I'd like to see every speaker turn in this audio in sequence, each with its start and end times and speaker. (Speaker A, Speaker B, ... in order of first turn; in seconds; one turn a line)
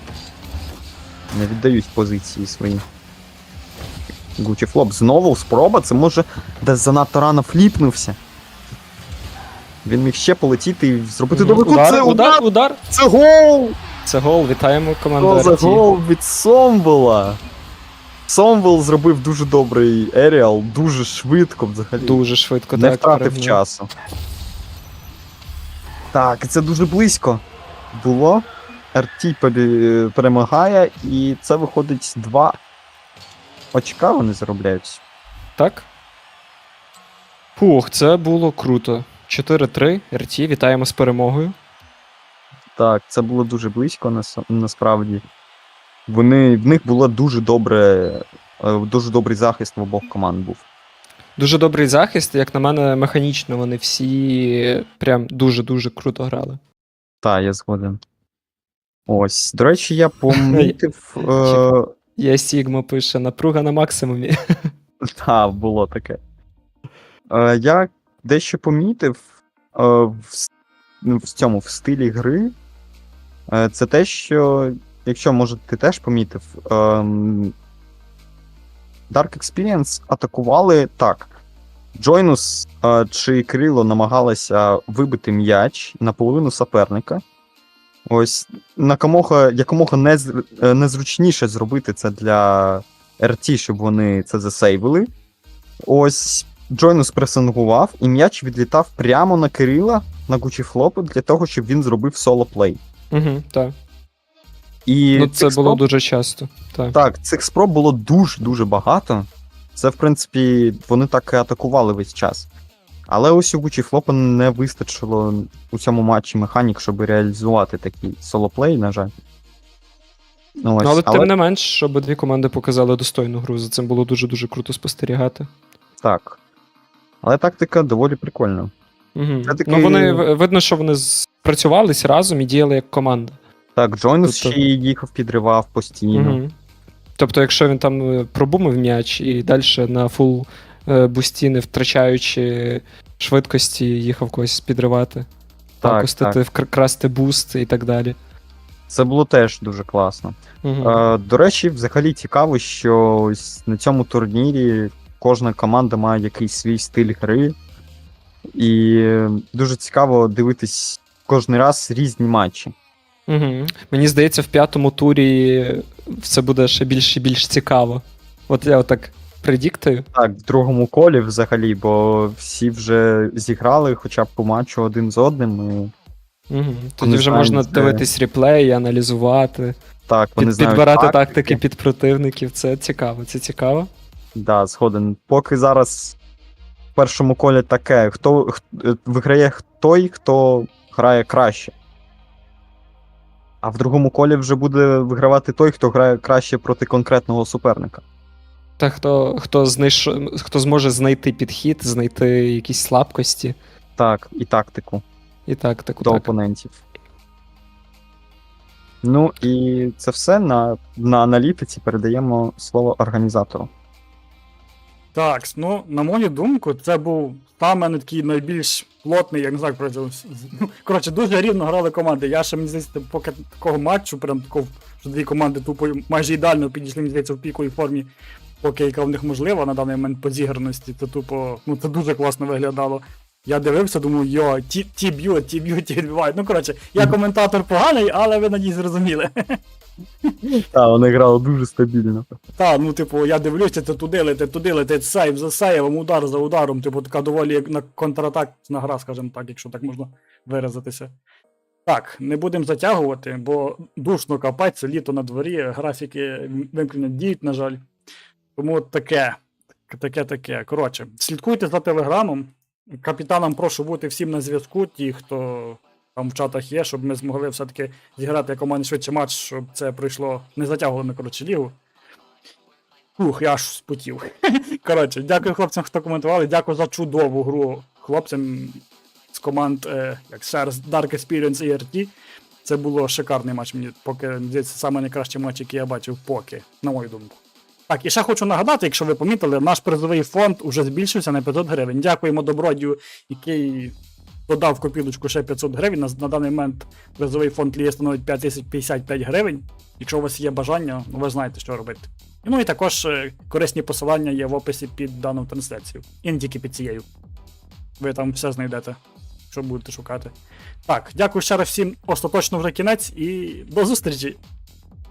Speaker A: 1.3-2.8
Speaker A: 4.4-8.2
Speaker A: 9.8-13.8
Speaker B: 11.3-12.8
Speaker B: 14.1-15.8
Speaker A: 15.2-17.4
Speaker A: 18.3-22.2
Speaker B: 22.0-23.6
Speaker A: 22.7-23.9
Speaker A: 26.1-32.6
Speaker A: 33.7-35.0
Speaker B: 35.6-35.9
Speaker B: 37.6-41.5
Speaker A: 42.8-45.2
Speaker A: 46.1-50.6
Speaker B: 51.4-56.6
Speaker A: 57.2-58.0
Speaker A: 59.1-61.9
Speaker B: 60.4-64.3
Speaker A: 65.0-66.2
Speaker A: 67.3-69.2
Speaker A: 69.7-70.5
Speaker A: 71.0-72.5
Speaker A: 73.5-77.5
Speaker A: 79.1-81.3
Speaker A: 82.0-87.2
Speaker A: 88.1-95.1
Speaker A: 95.9-102.8
Speaker B: 103.1-103.8
Speaker A: 104.9-105.8
Speaker B: 105.1-107.0
Speaker A: 106.9-112.5
Speaker A: 113.1-119.1
Speaker A: 120.6-121.3
Speaker B: 120.8-125.5
Speaker A: 126.0-126.4
Speaker A: 127.2-128.7
Speaker B: 129.2-133.4
Speaker A: 129.5-130.2
Speaker A: 133.8-136.4
Speaker B: 134.2-134.6
Speaker B: 136.1-136.5
Speaker B: 137.2-145.3
Speaker A: 145.8-146.4
Speaker B: 145.8-148.2
Speaker A: 148.9-157.6
Speaker B: 150.6-151.0
Speaker A: 158.6-162.7
Speaker B: 163.3-170.1
Speaker A: 170.2-175.9
Speaker B: 176.5-179.8
Speaker A: 177.0-178.0
Speaker A: 180.1-181.6
Speaker B: 180.4-183.9
Speaker A: 184.3-186.2
Speaker A: 187.0-191.7
Speaker A: 193.6-198.0
Speaker B: 198.8-203.6
Speaker A: 204.0-205.0
Speaker B: 205.5-206.3
Speaker A: 206.0-206.7
Speaker A: 209.0-213.7
Speaker C: 215.1-228.1
Speaker C: 228.6-239.3
Speaker A: 240.5-242.3
Speaker C: 242.6-251.1
Speaker C: 251.9-257.8
Speaker C: 258.6-259.4
Speaker C: 259.9-271.8
Speaker C: 273.2-274.3
Speaker C: 274.8-282.1
Speaker C: 282.6-287.4
Speaker C: 287.9-294.0
Speaker C: 294.5-307.1
Speaker C: 308.0-309.0
Speaker C: 309.5-310.3
Speaker C: 310.9-314.4